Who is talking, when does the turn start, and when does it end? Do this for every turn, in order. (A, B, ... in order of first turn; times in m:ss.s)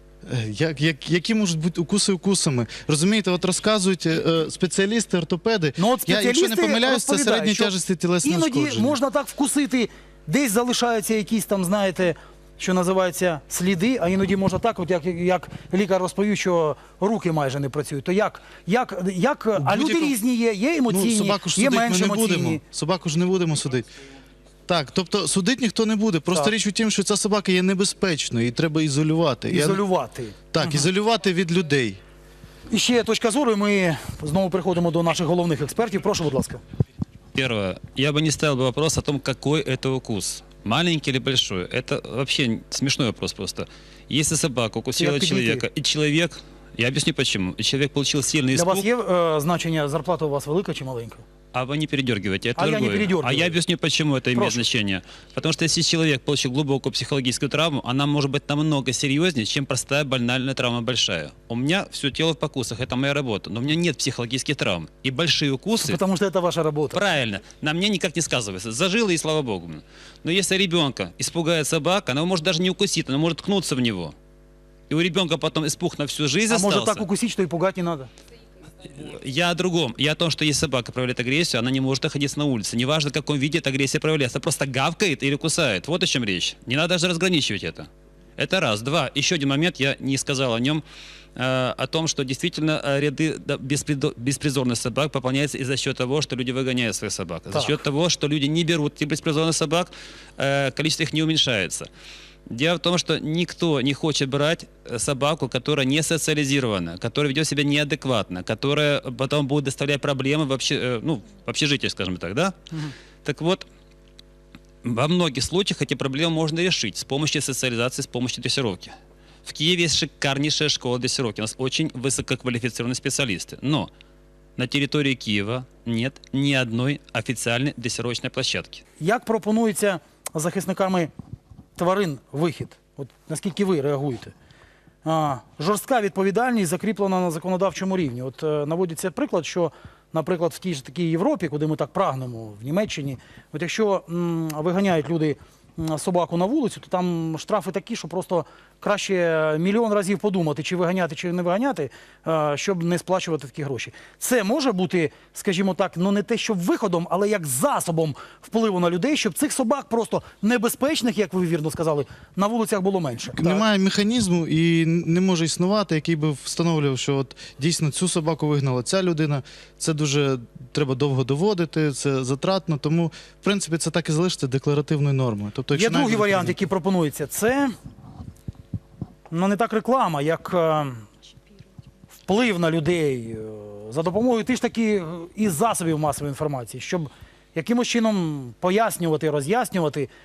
0:00.2-0:09.0 A
0:05.8-0:22.6 B
0:19.6-0:20.2 A
0:20.9-0:23.9 A
0:24.7-0:29.8 A
0:29.5-0:30.9 B
0:30.5-0:32.0 A
0:32.7-0:36.6 B
0:37.4-0:48.9 C
0:45.0-0:45.6 B
0:48.5-0:51.3 B
0:51.5-1:06.0 C
0:52.6-0:53.6 B
0:54.3-0:54.6 B
1:05.8-1:07.0 B
1:06.9-1:14.1 C
1:14.9-1:17.0 C
1:16.5-1:18.1 B
1:18.8-1:30.8 C
1:31.4-1:41.9 C
1:42.5-1:52.7 C
1:53.2-1:53.7 C
1:54.8-2:03.9 C
2:04.6-2:08.8 C
2:09.0-2:11.1 B
2:11.8-2:14.3 B
2:15.0-2:43.6 B
2:43.4-2:56.6 A
2:55.7-2:57.7 B
2:59.3-3:01.1 B
3:02.3-3:10.1 B